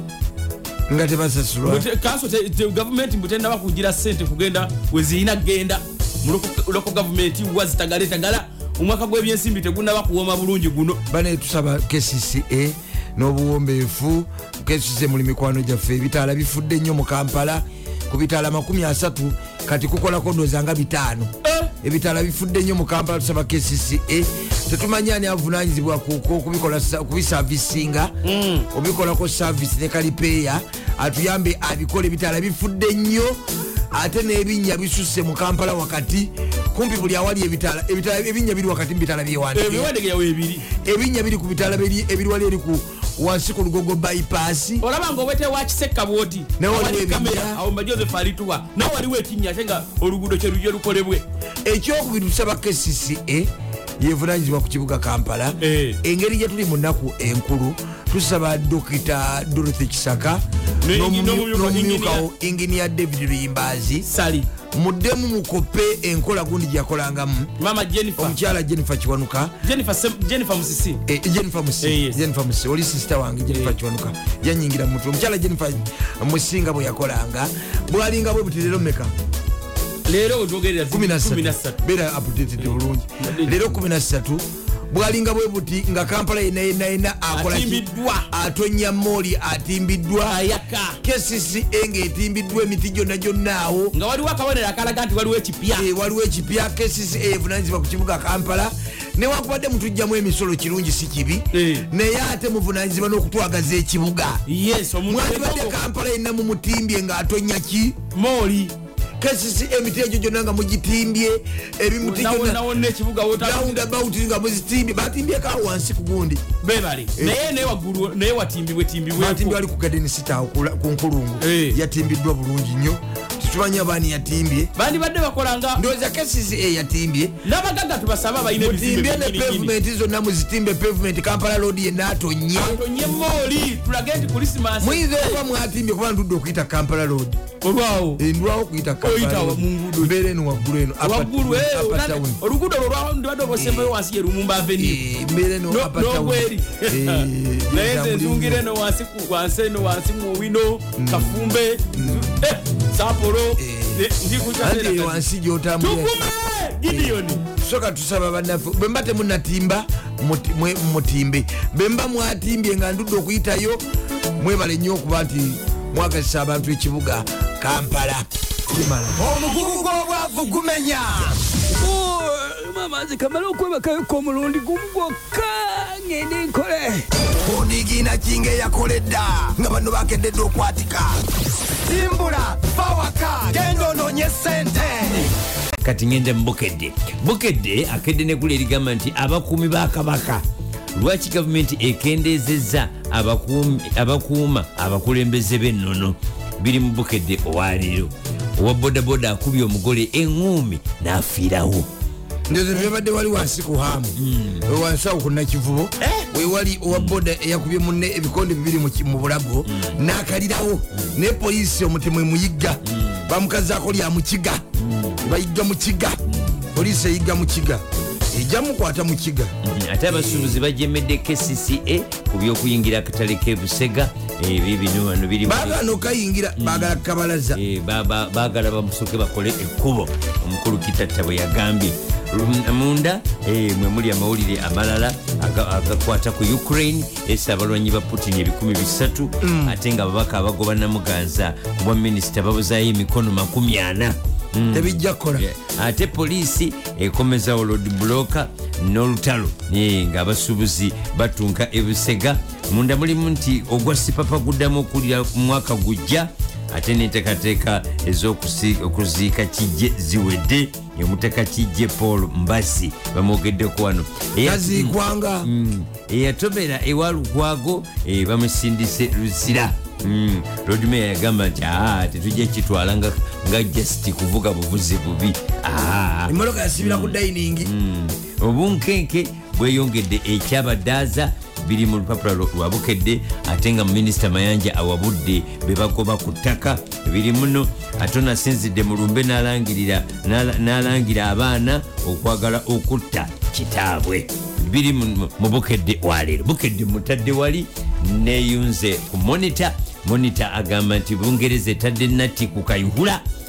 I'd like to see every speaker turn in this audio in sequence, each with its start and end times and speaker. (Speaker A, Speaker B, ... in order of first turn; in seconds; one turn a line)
Speaker A: 0.9-1.9
Speaker B: 1.6-11.0
Speaker A: 11.1-28.1
Speaker B: 21.4-21.7
Speaker B: 28.2-28.7
Speaker A: 28.7-39.9
Speaker B: 39.5-40.6
Speaker A: 40.8-44.8
Speaker B: 44.8-51.2
Speaker A: 46.6-47.6
Speaker A: 51.6-64.1
Speaker B: 55.6-56.0
Speaker B: 60.8-62.2
Speaker B: 64.0-64.5
Speaker A: 64.7-67.5
Speaker B: 67.6-68.3
Speaker A: 68.2-69.5
Speaker B: 69.6-71.0
Speaker A: 71.1-79.1
Speaker B: 71.8-72.2
Speaker B: 80.0-81.8
Speaker A: 80.9-90.4
Speaker B: 82.6-83.6
Speaker B: 87.3-88.3
Speaker B: 90.2-91.0
Speaker A: 91.0-93.9
Speaker B: 93.9-95.9
Speaker A: 95.7-104.4
Speaker B: 101.5-101.8
Speaker B: 104.5-105.8
Speaker A: 105.0-108.0
Speaker B: 108.1-108.7
Speaker A: 109.2-112.6
Speaker B: 112.0-113.8
Speaker A: 113.4-116.4
Speaker B: 116.6-119.6
Speaker A: 119.1-124.7
Speaker B: 121.4-121.8
Speaker B: 124.8-125.8
Speaker A: 125.8-127.3
Speaker B: 127.4-129.7
Speaker A: 128.6-132.8
Speaker B: 132.6-135.4
Speaker A: 134.8-137.4
Speaker B: 137.6-138.2
Speaker A: 138.2-142.4
Speaker B: 139.0-140.1
Speaker B: 141.0-145.0
Speaker A: 143.6-143.9
Speaker A: 144.8-148.6
Speaker B: 145.7-155.2
Speaker A: 151.0-152.4
Speaker A: 153.6-154.0
Speaker A: 154.6-156.1
Speaker B: 155.8-157.4
Speaker A: 156.9-163.8
Speaker A: 164.4-169.2
Speaker C: 169.2-171.4
Speaker D: 171.7-177.1
Speaker A: 177.4-181.1
Speaker C: 178.9-179.6
Speaker C: 181.8-185.3
Speaker E: 185.8-190.4
Speaker E: 190.9-201.9
Speaker A: 202.5-204.1
Speaker E: 204.2-204.7
Speaker A: 204.7-214.6
Speaker E: 206.9-207.2
Speaker E: 209.7-210.0
Speaker E: 212.8-213.3
Speaker E: 214.8-215.2
Speaker A: 215.2-216.2
Speaker E: 216.3-216.6
Speaker A: 216.7-219.5
Speaker E: 219.6-226.0
Speaker A: 220.1-220.6
Speaker A: 225.4-227.6
Speaker E: 226.6-227.0
Speaker E: 227.5-303.2
Speaker A: 239.4-239.8
Speaker A: 244.7-245.4
Speaker A: 264.4-265.5
Speaker A: 276.3-277.7